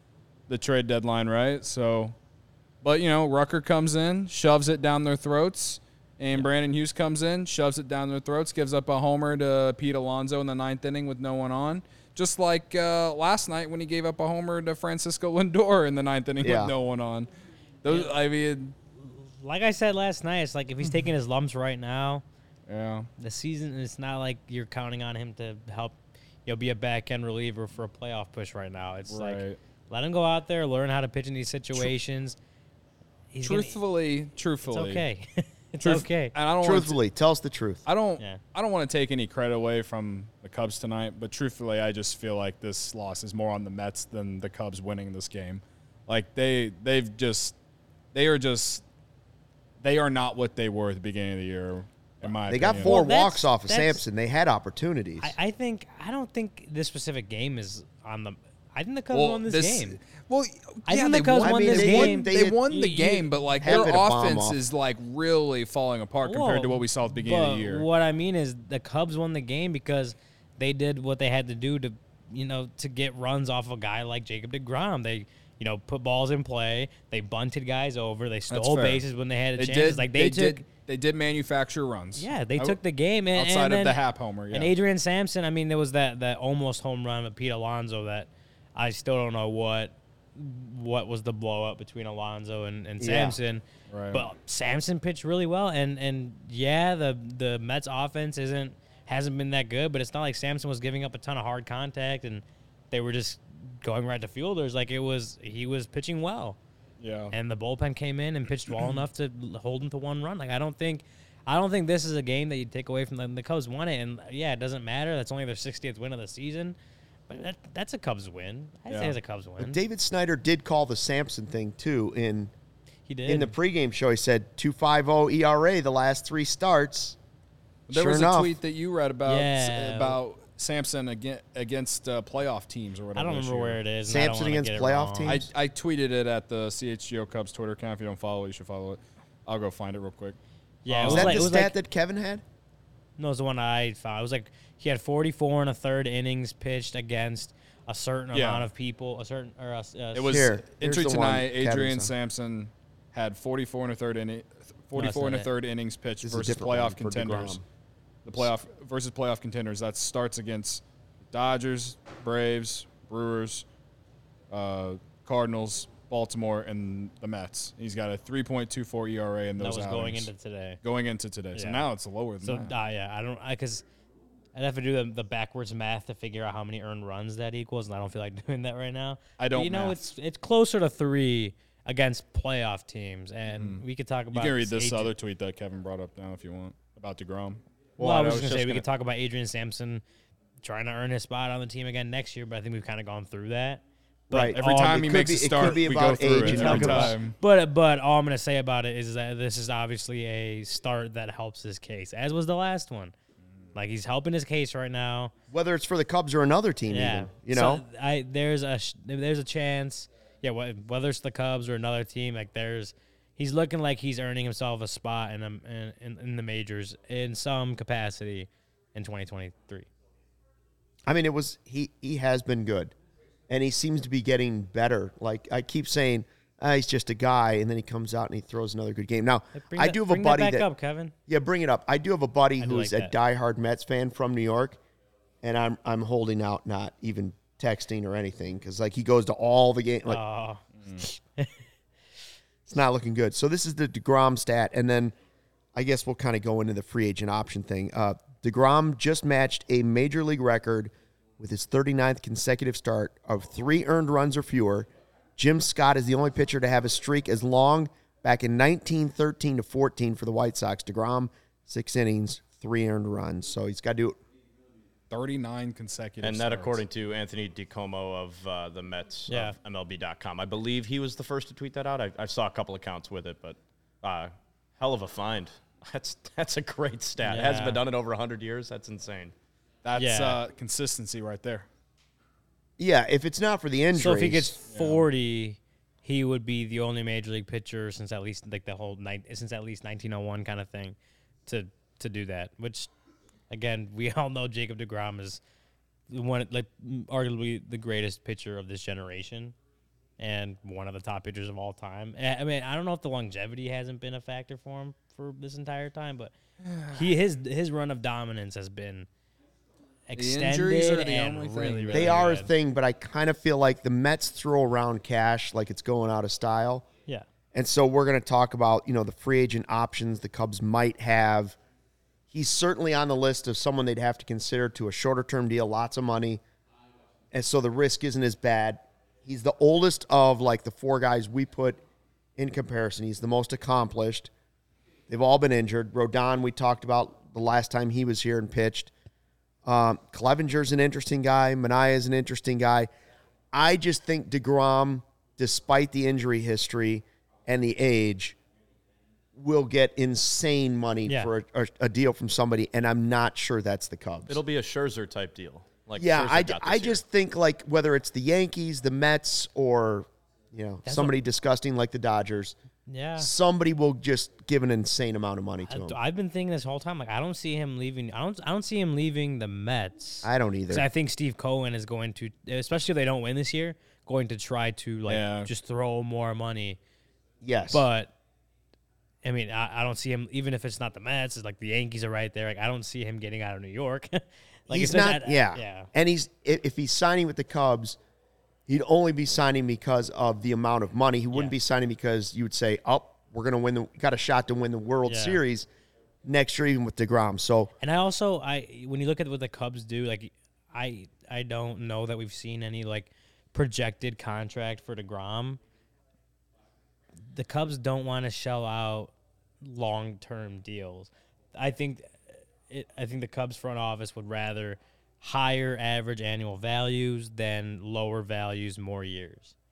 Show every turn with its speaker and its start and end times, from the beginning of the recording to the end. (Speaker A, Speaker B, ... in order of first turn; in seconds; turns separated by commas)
Speaker A: 0.5-2.2, Speaker A: 2.8-17.3, Speaker B: 16.4-16.7, Speaker A: 17.8-18.7, Speaker C: 17.9-18.1, Speaker C: 19.0-22.2, Speaker A: 22.7-23.1, Speaker C: 23.2-32.4, Speaker A: 29.1-29.6, Speaker C: 33.3-33.8, Speaker A: 33.4-35.0, Speaker C: 34.7-36.3, Speaker A: 35.8-37.0, Speaker B: 36.6-37.9, Speaker A: 37.9-47.5, Speaker A: 48.1-48.8, Speaker A: 49.8-53.0, Speaker B: 52.5-55.4, Speaker C: 52.8-54.0, Speaker C: 55.2-60.0, Speaker A: 59.1-67.9, Speaker C: 60.9-63.9, Speaker B: 61.4-62.6, Speaker B: 63.6-64.6, Speaker C: 66.2-80.6, Speaker A: 78.5-79.0, Speaker A: 79.6-82.8, Speaker C: 82.2-84.0, Speaker A: 83.3-84.7, Speaker C: 84.5-106.6, Speaker B: 93.0-93.4, Speaker A: 93.9-94.3, Speaker A: 107.0-107.3, Speaker C: 107.3-116.8, Speaker C: 117.3-119.8, Speaker A: 118.9-119.2, Speaker B: 119.6-122.5, Speaker C: 123.1-123.6, Speaker B: 123.3-127.2, Speaker A: 127.9-133.8, Speaker B: 127.9-128.6, Speaker C: 129.3-130.2, Speaker C: 133.2-135.4, Speaker B: 134.1-135.5, Speaker A: 135.3-140.4, Speaker C: 140.8-141.7, Speaker A: 140.9-141.5, Speaker B: 141.1-142.4, Speaker C: 143.2-150.5, Speaker A: 148.3-148.7, Speaker A: 150.1-157.6, Speaker B: 150.3-152.1, Speaker C: 154.9-155.5, Speaker B: 156.2-157.6, Speaker A: 158.2-163.7, Speaker A: 164.5-170.3, Speaker C: 169.6-170.8, Speaker A: 170.8-172.7, Speaker C: 171.6-171.9, Speaker C: 172.4-173.8, Speaker C: 174.6-185.1, Speaker A: 179.4-180.0, Speaker A: 183.5-188.8, Speaker C: 188.0-190.0, Speaker C: 190.6-194.7, Speaker B: 194.3-197.2, Speaker A: 194.5-197.4, Speaker C: 196.4-203.1, Speaker C: 203.8-205.3, Speaker B: 205.5-207.8, Speaker C: 206.9-219.9, Speaker B: 221.1-222.9, Speaker B: 223.5-230.7, Speaker C: 229.6-231.1, Speaker B: 231.3-234.8, Speaker C: 232.6-233.1, Speaker B: 235.4-240.2, Speaker C: 240.1-241.6, Speaker B: 242.7-245.2, Speaker B: 245.8-264.2, Speaker A: 265.1-266.8, Speaker D: 266.2-279.3, Speaker C: 269.3-269.6, Speaker C: 277.2-277.8, Speaker A: 279.8-281.7, Speaker C: 280.0-280.4, Speaker B: 282.8-284.6, Speaker C: 283.9-292.9, Speaker A: 284.7-285.0, Speaker C: 293.5-295.4, Speaker C: 296.1-299.6, Speaker C: 300.2-306.3, Speaker A: 306.6-307.0, Speaker C: 306.9-309.1, Speaker C: 310.1-312.5, Speaker A: 310.2-312.2, Speaker B: 311.9-316.9, Speaker B: 317.5-321.6, Speaker B: 322.3-326.4, Speaker B: 327.3-331.8, Speaker B: 332.4-334.3, Speaker B: 335.1-338.9, Speaker B: 339.6-342.9, Speaker B: 343.5-348.4, Speaker B: 349.3-354.4, Speaker C: 351.1-351.3, Speaker D: 354.3-357.0, Speaker B: 356.0-362.6, Speaker C: 360.9-361.2, Speaker C: 362.9-363.3, Speaker B: 363.2-366.0, Speaker C: 365.7-376.8, Speaker B: 370.2-370.9, Speaker A: 375.1-375.5, Speaker B: 377.4-377.9, Speaker C: 377.7-378.1, Speaker C: 379.2-385.9, Speaker B: 384.7-388.0, Speaker B: 388.7-395.7, Speaker C: 395.1-395.4, Speaker B: 396.2-397.7, Speaker C: 397.8-405.6, Speaker C: 407.3-419.6